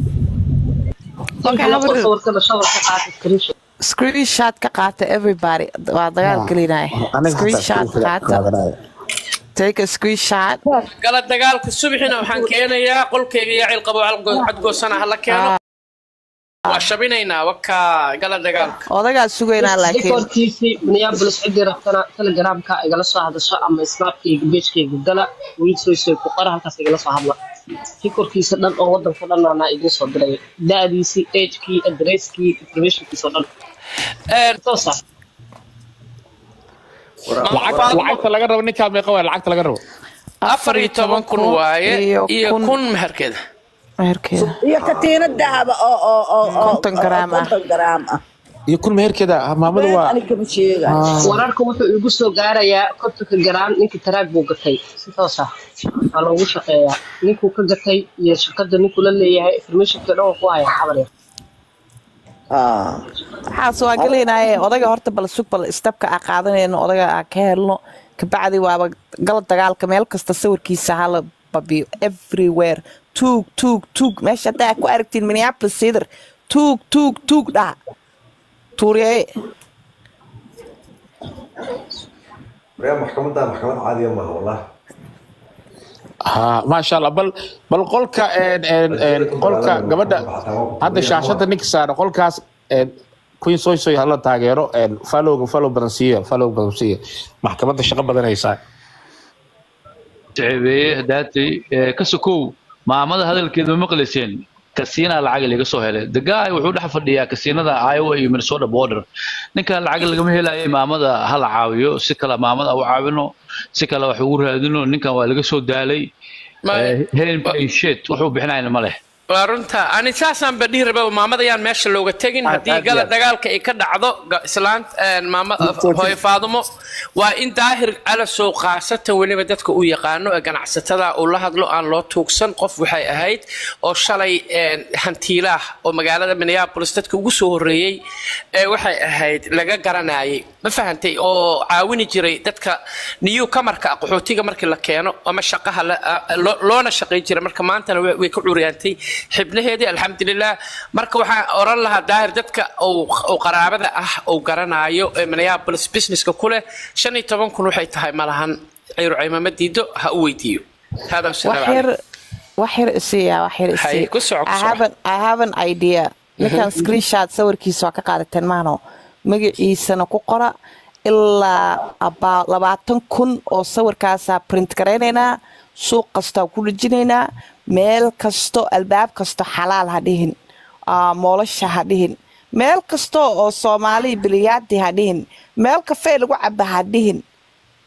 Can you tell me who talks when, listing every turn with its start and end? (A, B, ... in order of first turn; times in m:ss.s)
0:01.4-0:03.5 A
0:01.4-0:02.1 B
0:03.8-0:08.5 B
0:06.2-0:08.8 C
0:09.6-0:10.6 B
0:11.0-0:15.6 D
0:15.3-0:15.5 B
0:16.7-0:18.8 D
0:18.9-0:20.3 B
0:19.6-0:27.4 A
0:28.0-0:33.5 A
0:34.3-0:34.6 D
0:34.6-0:35.0 A
0:37.3-0:38.2 E
0:37.4-0:39.8 C
0:37.5-0:38.1 D
0:40.4-0:42.8 B
0:40.5-0:43.4 D
0:44.0-0:44.5 B
0:44.4-0:48.2 F
0:44.8-0:45.1 E
0:46.6-0:47.5 B
0:48.7-0:50.2 C
0:49.7-0:51.2 F
0:50.9-0:51.4 C
0:51.2-0:55.5 A
0:56.1-1:01.1 A
1:02.5-1:03.0 F
1:03.5-1:17.8 B
1:18.8-1:19.3 B
1:22.8-1:24.6 E
1:26.3-1:30.2 C
1:28.9-1:31.4 E
1:30.8-1:38.6 C
1:40.4-1:49.0 G
1:49.6-1:56.1 G
1:56.7-1:57.6 D
1:56.7-1:59.0 G
1:59.3-2:18.0 D
2:02.4-2:03.1 C
2:05.6-2:06.2 C
2:18.6-2:41.9 D
2:41.4-2:41.9 B
2:42.6-3:00.4 B
2:43.7-2:44.8 D
2:46.4-2:46.8 D
3:00.9-3:07.2 B